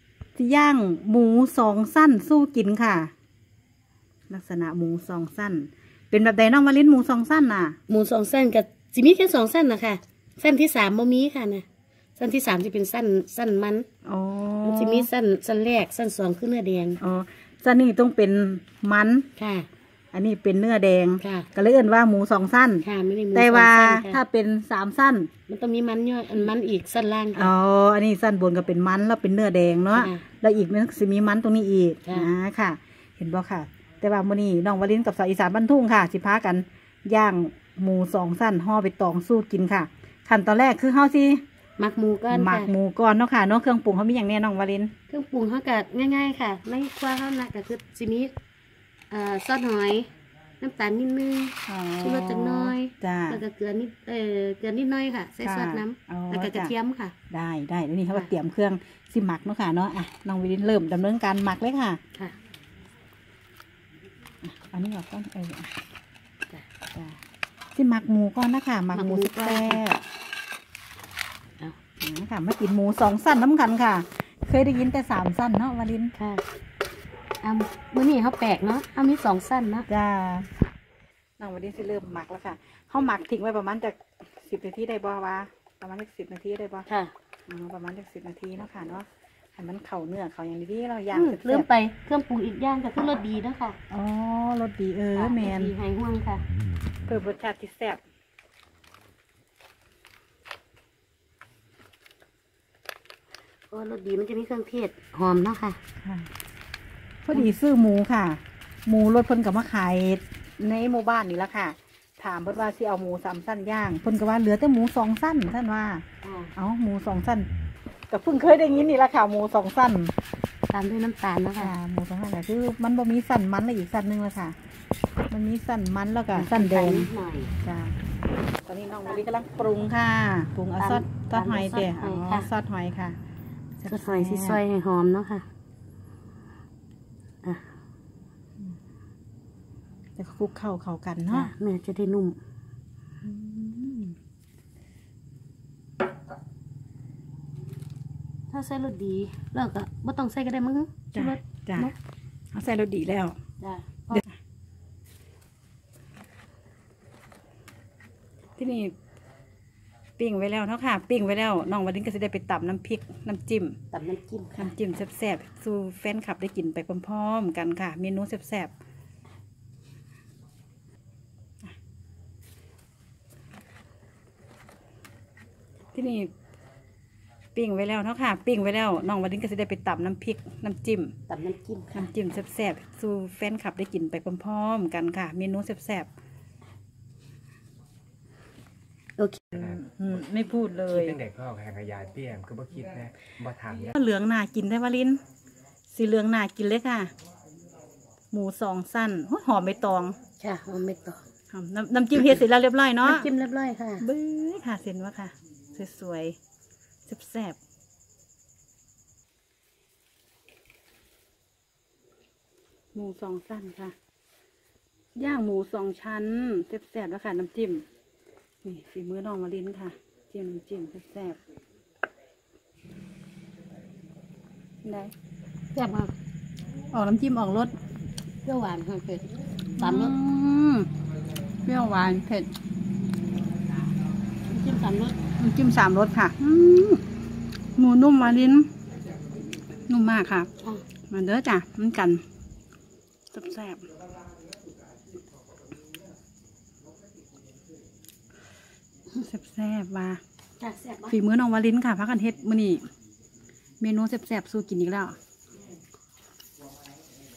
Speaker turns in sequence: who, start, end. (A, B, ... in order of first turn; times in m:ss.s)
0:00.4-0:03.1 A
0:04.3-0:07.8 A
0:07.9-0:11.6 B
0:12.2-0:13.9 B
0:14.0-0:15.1 A
0:14.6-0:17.0 B
0:17.0-0:19.2 A
0:19.4-0:19.7 B
0:20.1-0:25.3 A
0:21.2-0:21.5 B
0:22.8-0:24.2 B
0:25.5-0:27.5 B
0:27.3-0:41.4 A
0:29.9-0:30.2 B
0:41.8-0:42.7 B
0:42.3-0:44.9 A
0:45.1-0:48.3 B
0:49.1-0:50.1 B
0:50.6-0:57.1 B
0:51.7-0:53.4 A
0:55.4-0:56.7 A
0:57.3-1:02.0 A
1:04.4-1:05.8 A
1:06.9-1:07.2 A
1:07.7-1:10.0 A
1:08.9-1:09.8 B
1:12.0-1:16.1 A
1:16.2-1:16.4 B
1:17.4-1:19.9 B
1:19.9-1:20.5 A
1:21.4-1:26.9 A
1:26.9-1:27.1 B
1:27.5-1:31.7 A
1:31.1-1:33.8 B
1:33.9-1:35.7 A
1:35.1-1:36.4 B
1:37.1-1:38.0 A
1:43.7-1:45.8 B
1:46.0-1:46.3 A
1:47.2-1:56.0 A
1:56.2-1:56.5 B
1:56.6-1:57.5 A
1:58.1-2:00.1 A
2:00.7-2:01.7 B
2:01.6-2:04.6 A
2:05.3-2:07.1 A
2:06.3-2:07.5 B
2:07.6-2:08.0 A
2:08.6-2:13.2 A
2:10.8-2:12.5 B
2:13.8-2:14.6 A
2:13.9-2:15.4 B
2:17.4-2:17.7 B
2:20.2-2:21.5 A
2:21.3-2:22.4 B
2:23.2-2:24.2 A
2:28.5-2:31.9 B
2:31.1-2:31.9 A
2:32.5-2:33.4 A
2:33.6-2:34.2 B
2:38.6-2:38.9 A
2:40.2-2:43.8 A
2:43.9-2:44.7 B
2:44.5-2:48.7 A
2:55.9-2:56.3 A
2:57.5-3:01.2 A
3:01.3-3:02.1 B
3:01.9-3:06.1 A
3:09.2-3:09.4 B
3:09.5-3:09.8 C
3:09.5-3:11.2 A
3:10.9-3:13.9 C
3:13.9-3:15.2 A
3:15.9-3:17.1 A
3:18.3-3:20.2 A
3:20.4-3:21.2 B
3:21.5-3:23.3 A
3:23.0-3:24.0 B
3:24.0-3:26.4 A
3:27.0-3:27.6 A
3:32.9-3:33.9 A
3:35.2-3:37.8 A
3:38.6-3:41.4 A
3:44.8-3:45.1 A
3:45.7-3:46.1 B
3:46.9-3:47.7 A
3:48.4-3:50.1 B
3:49.8-3:50.9 A
3:51.6-3:52.5 A
3:54.5-3:55.2 B
3:55.4-3:57.0 A
3:57.8-3:58.7 A
3:59.9-4:00.5 A
4:01.1-4:02.2 A
4:03.3-4:03.8 A
4:09.1-4:10.2 A
4:10.6-4:11.2 B
4:11.1-4:12.9 A
4:13.8-4:15.2 A